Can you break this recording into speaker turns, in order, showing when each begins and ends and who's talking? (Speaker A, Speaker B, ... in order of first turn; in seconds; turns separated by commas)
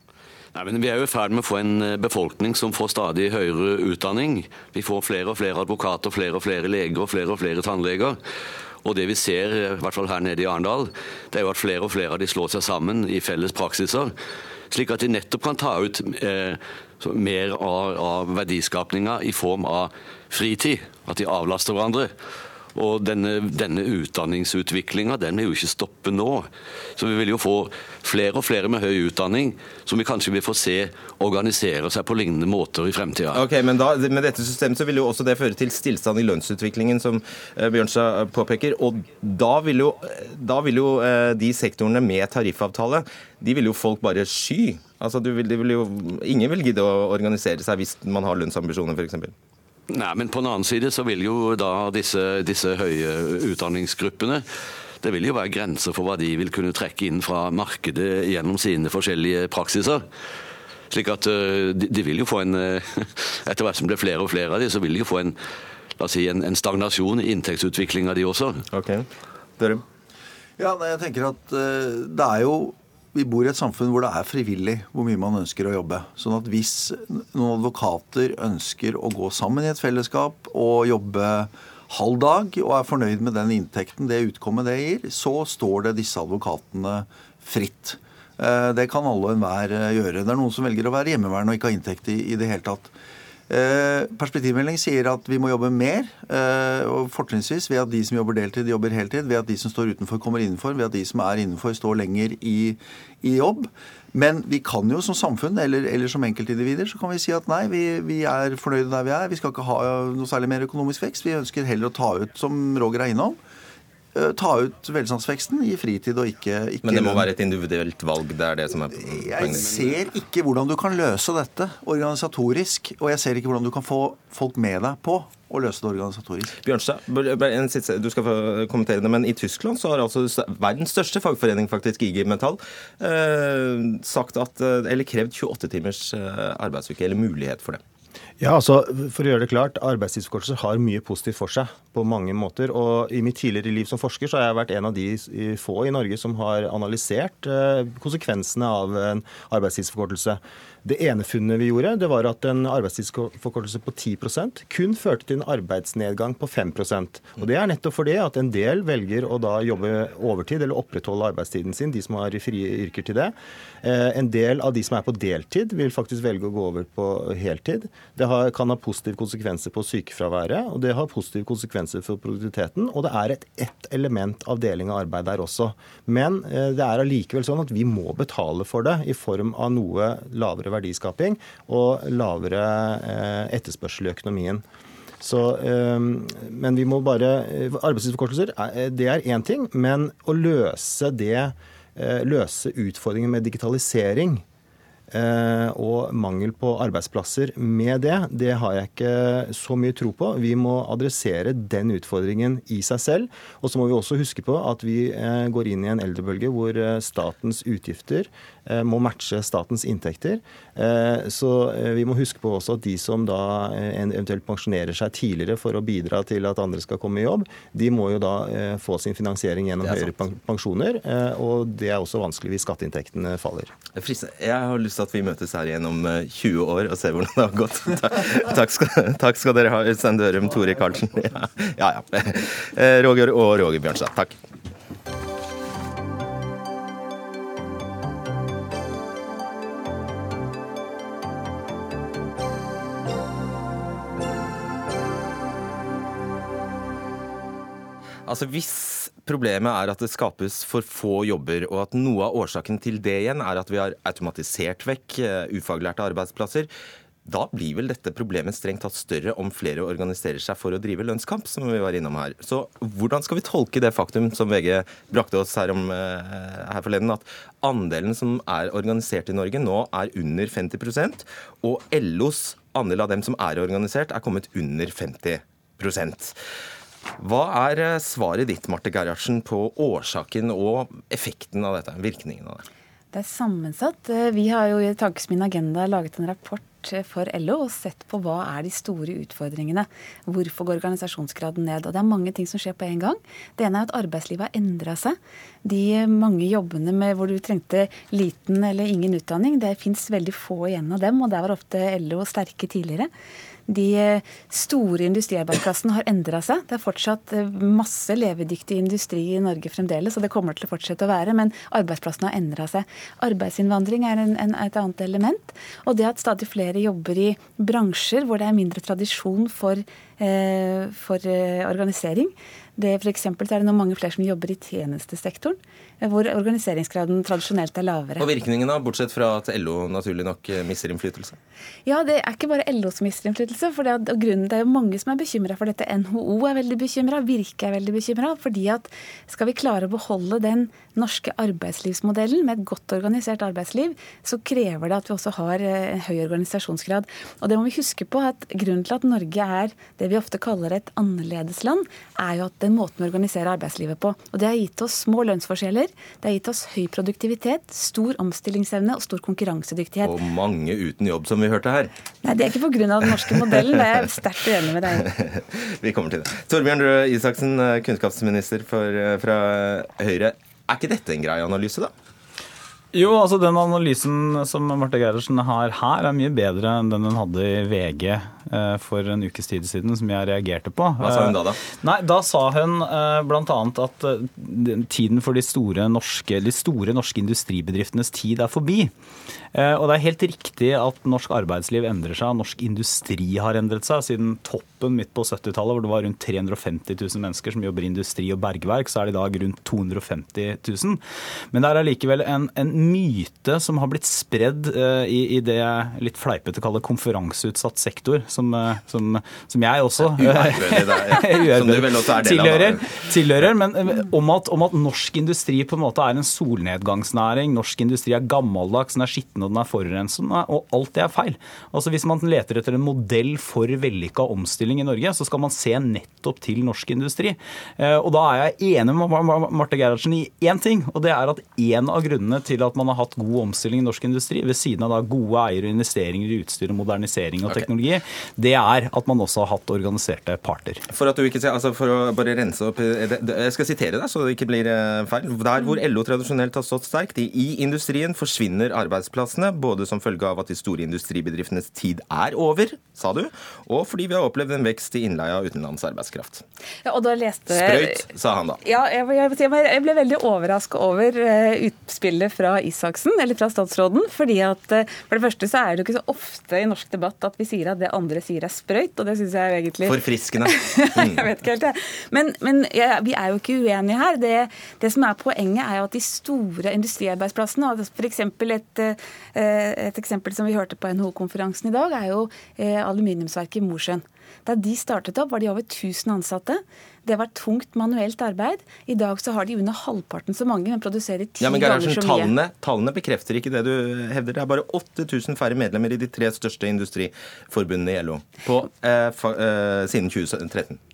Speaker A: 0.5-8.2, Speaker A: 8.8-14.1, Speaker A: 14.7-22.1, Speaker A: 22.7-33.4, Speaker B: 33.3-49.3, Speaker A: 49.9-54.5, Speaker A: 55.0-60.1, Speaker A: 60.9-65.4, Speaker A: 66.0-68.7, Speaker B: 68.7-69.1, Speaker B: 69.6-69.8, Speaker C: 70.6-92.9, Speaker C: 93.5-113.4, Speaker C: 114.1-117.3, Speaker B: 116.8-119.8, Speaker C: 118.9-126.6, Speaker B: 126.6-137.8, Speaker D: 138.4-184.6, Speaker D: 185.2-194.4, Speaker D: 195.1-223.7, Speaker B: 219.8-220.1, Speaker B: 224.0-234.4, Speaker B: 248.3-256.7, Speaker B: 257.3-276.4, Speaker B: 277.2-282.6, Speaker E: 283.1-303.1, Speaker E: 303.7-328.3, Speaker B: 328.2-331.4, Speaker E: 331.9-360.1, Speaker B: 360.0-361.9, Speaker E: 362.2-365.1, Speaker B: 365.1-371.9, Speaker F: 372.9-388.9, Speaker B: 381.0-381.6, Speaker F: 389.5-440.9, Speaker B: 410.1-413.5, Speaker B: 440.9-456.4, Speaker E: 456.9-458.1, Speaker B: 457.5-458.6, Speaker E: 458.6-492.3, Speaker B: 469.9-471.2, Speaker B: 491.4-500.8